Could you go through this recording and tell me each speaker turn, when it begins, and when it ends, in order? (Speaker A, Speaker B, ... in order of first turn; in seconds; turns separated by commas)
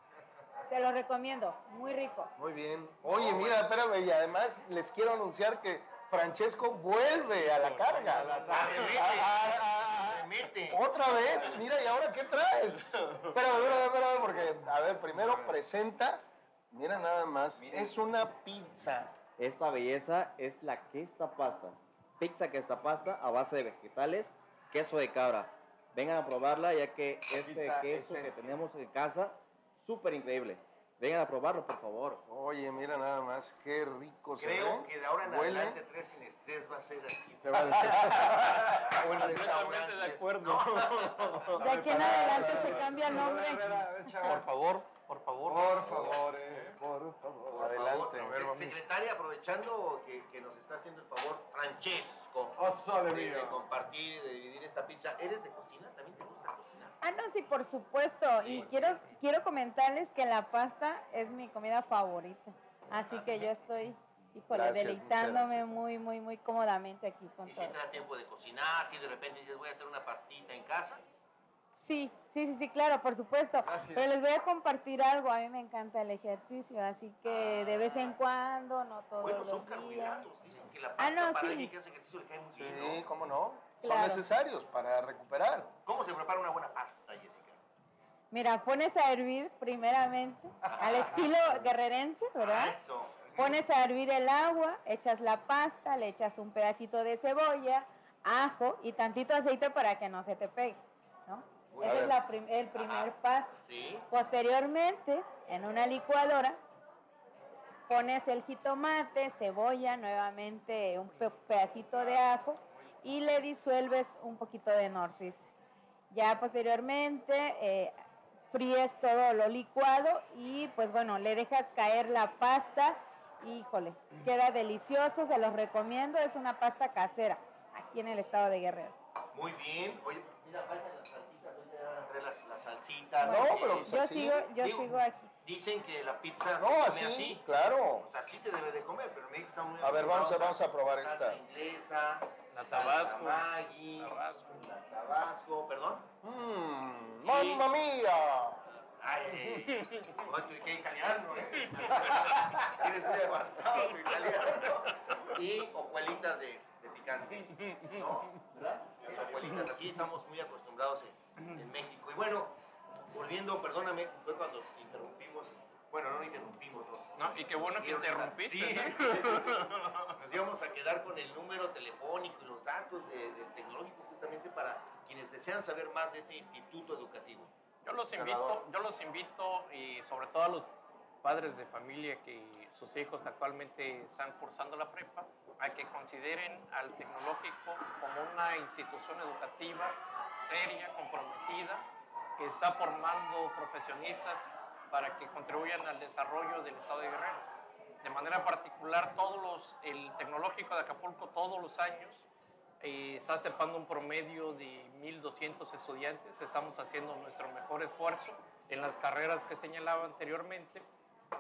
Speaker A: 0.7-2.3, Speaker B: 2.4-19.2, Speaker C: 3.0-3.6, Speaker D: 7.4-9.2, Speaker C: 8.5-11.5, Speaker D: 15.1-15.6, Speaker D: 17.6-18.0, Speaker E: 19.4-32.2, Speaker D: 27.3-28.6, Speaker B: 32.3-35.8, Speaker C: 34.4-41.6, Speaker D: 37.4-39.7, Speaker B: 37.8-38.2, Speaker B: 39.1-39.7, Speaker F: 39.2-41.6, Speaker D: 41.5-44.5, Speaker A: 41.6-44.1, Speaker B: 41.9-43.1, Speaker F: 44.2-45.8, Speaker D: 45.5-48.8, Speaker C: 45.9-46.2, Speaker B: 47.5-48.6, Speaker C: 47.6-57.0, Speaker D: 52.6-53.7, Speaker A: 57.0-67.8, Speaker C: 58.4-59.0, Speaker B: 64.5-65.8, Speaker C: 67.5-71.0, Speaker A: 71.7-80.2, Speaker D: 73.6-74.2, Speaker C: 77.2-78.2, Speaker C: 79.2-83.0, Speaker A: 81.0-81.7, Speaker B: 82.6-85.7, Speaker A: 83.8-84.2, Speaker C: 85.8-87.6, Speaker A: 88.3-92.8, Speaker C: 90.6-91.7, Speaker C: 92.4-93.7, Speaker A: 93.4-103.6, Speaker D: 101.8-102.2, Speaker C: 101.8-102.1, Speaker C: 102.8-104.1, Speaker A: 104.1-106.6, Speaker A: 107.9-115.5, Speaker A: 116.1-117.9, Speaker A: 118.5-128.9, Speaker C: 129.3-134.0, Speaker B: 133.2-134.5, Speaker A: 133.2-135.3, Speaker C: 134.6-146.1, Speaker B: 136.6-138.1, Speaker B: 139.8-141.4, Speaker F: 142.5-143.4, Speaker F: 144.0-144.6, Speaker B: 146.2-148.6, Speaker C: 147.2-147.7, Speaker C: 148.7-162.6, Speaker F: 149.8-150.1, Speaker C: 163.1-177.5, Speaker F: 167.2-170.1, Speaker F: 177.8-180.7, Speaker C: 178.1-178.6, Speaker F: 181.2-191.8, Speaker F: 192.4-197.5, Speaker F: 198.0-202.3, Speaker F: 202.8-210.8